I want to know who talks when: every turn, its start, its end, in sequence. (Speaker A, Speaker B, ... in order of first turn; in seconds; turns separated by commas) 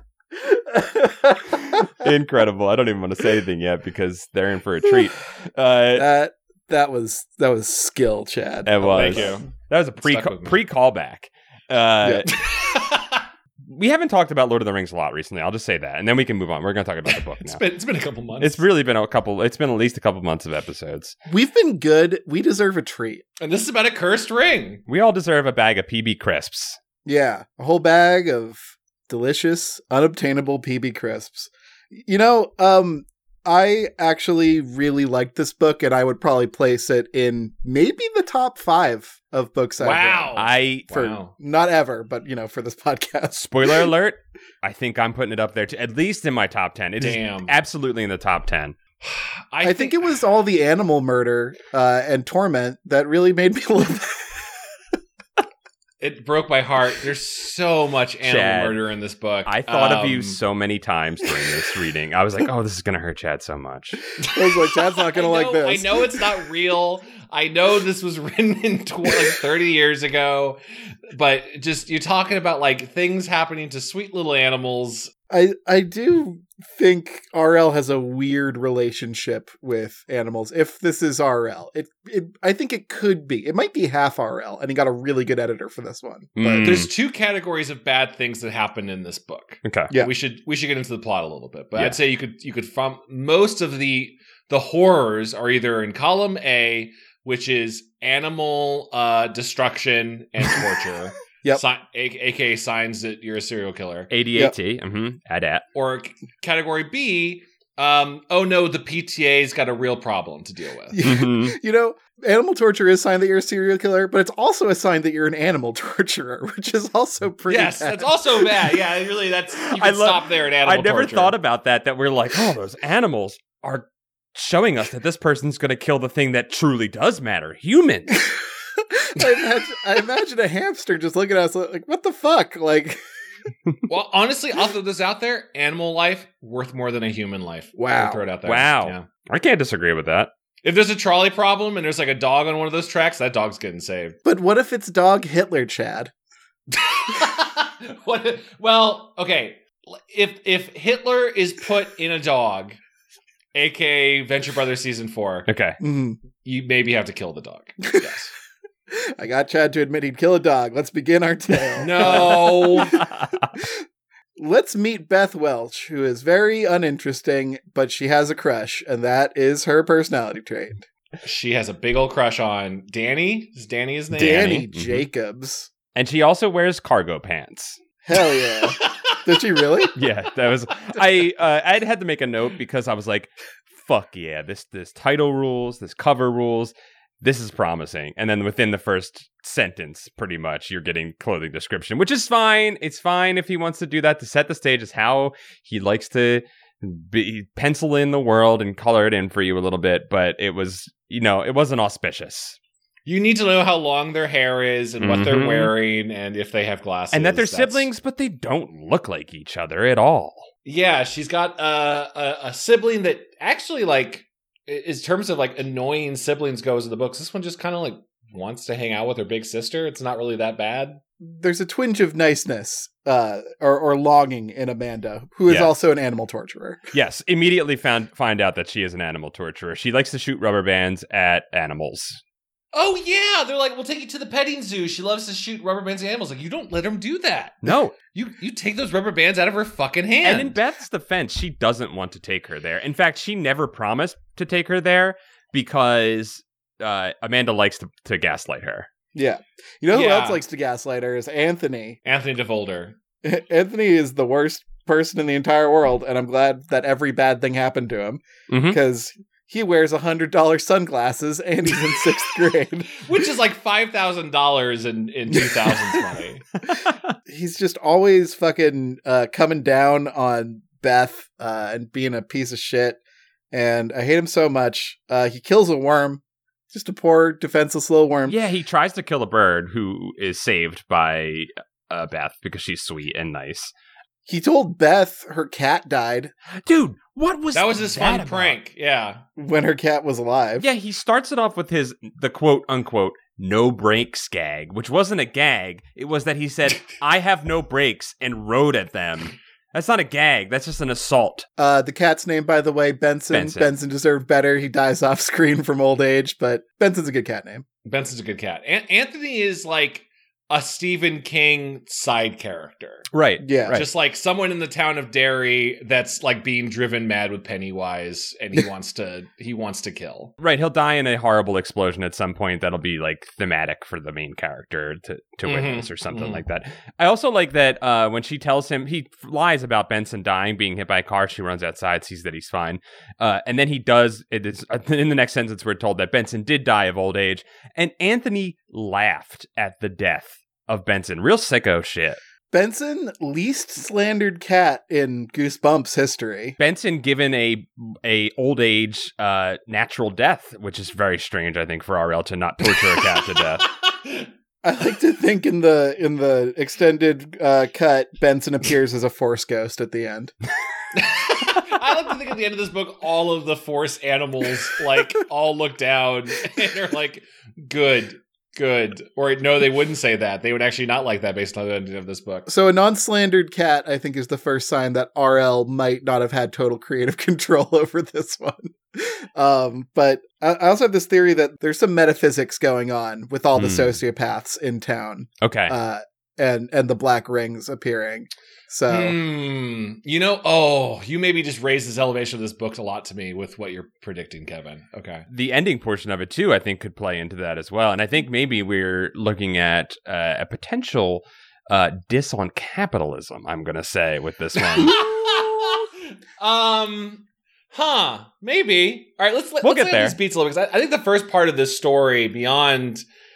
Speaker A: 0.4-2.1, Speaker B: 1.5-6.1, Speaker A: 6.0-9.4, Speaker B: 8.7-12.3, Speaker C: 8.8-9.5, Speaker C: 10.0-10.6, Speaker A: 12.0-12.3, Speaker C: 12.3-13.2, Speaker B: 13.7-17.6, Speaker C: 17.1-18.6, Speaker B: 18.4-21.1, Speaker A: 21.3-23.2, Speaker C: 23.4-24.8, Speaker B: 24.9-26.8, Speaker A: 27.1-40.4, Speaker C: 39.8-41.3, Speaker B: 40.4-41.0, Speaker A: 40.9-43.9, Speaker B: 43.4-48.8, Speaker C: 47.0-47.5, Speaker C: 49.0-50.0, Speaker A: 49.6-54.5, Speaker C: 56.0-60.4, Speaker B: 58.2-58.8, Speaker B: 59.5-64.0, Speaker C: 64.3-75.1, Speaker A: 64.3-66.2, Speaker A: 75.3-86.8, Speaker B: 86.4-86.9, Speaker C: 86.6-104.1, Speaker B: 89.7-89.9, Speaker B: 104.1-105.7, Speaker C: 105.8-111.0, Speaker A: 110.9-118.5, Speaker B: 111.0-111.6, Speaker C: 117.5-121.3, Speaker B: 119.7-128.2, Speaker A: 128.8-133.0, Speaker C: 133.9-139.1, Speaker A: 137.8-138.3, Speaker B: 138.4-140.3, Speaker C: 140.6-144.2, Speaker A: 144.2-146.1, Speaker C: 146.7-152.8, Speaker C: 153.5-155.5, Speaker B: 155.5-155.8, Speaker A: 155.8-156.2, Speaker C: 156.4-158.3, Speaker A: 158.9-163.7, Speaker C: 161.8-163.0, Speaker A: 164.4-170.9, Speaker C: 171.2-174.6, Speaker A: 174.1-175.7, Speaker B: 174.2-175.1, Speaker B: 175.9-177.8, Speaker A: 178.1-179.9, Speaker C: 178.6-179.2, Speaker B: 180.0-202.6, Speaker C: 203.1-207.9, Speaker B: 205.0-205.7, Speaker B: 207.1-210.5, Speaker C: 210.7-221.0, Speaker A: 221.2-226.9, Speaker B: 226.9-232.2, Speaker C: 232.7-240.6, Speaker B: 237.6-237.9, Speaker B: 240.2-248.9, Speaker A: 249.1-252.0, Speaker C: 249.9-250.4, Speaker C: 252.1-253.0, Speaker A: 253.2-263.2, Speaker B: 258.5-258.8, Speaker C: 263.0-266.5, Speaker A: 267.3-273.0, Speaker A: 273.5-278.4, Speaker B: 278.3-283.7, Speaker A: 284.3-286.3, Speaker B: 286.6-288.6, Speaker C: 287.5-289.2, Speaker A: 289.4-290.7, Speaker B: 290.6-301.5, Speaker A: 301.6-307.6, Speaker B: 303.3-303.7, Speaker C: 307.9-313.1, Speaker B: 313.1-313.9, Speaker A: 313.4-313.8, Speaker C: 313.7-320.3, Speaker B: 320.4-342.2, Speaker C: 325.5-326.4, Speaker A: 342.5-346.6, Speaker B: 346.6-353.7, Speaker C: 354.0-354.3, Speaker A: 354.6-360.3, Speaker C: 360.9-372.5, Speaker A: 372.5-389.2, Speaker B: 383.6-384.0, Speaker B: 385.4-385.8, Speaker C: 388.9-395.3, Speaker B: 395.3-405.1, Speaker C: 404.7-413.1, Speaker B: 409.6-410.2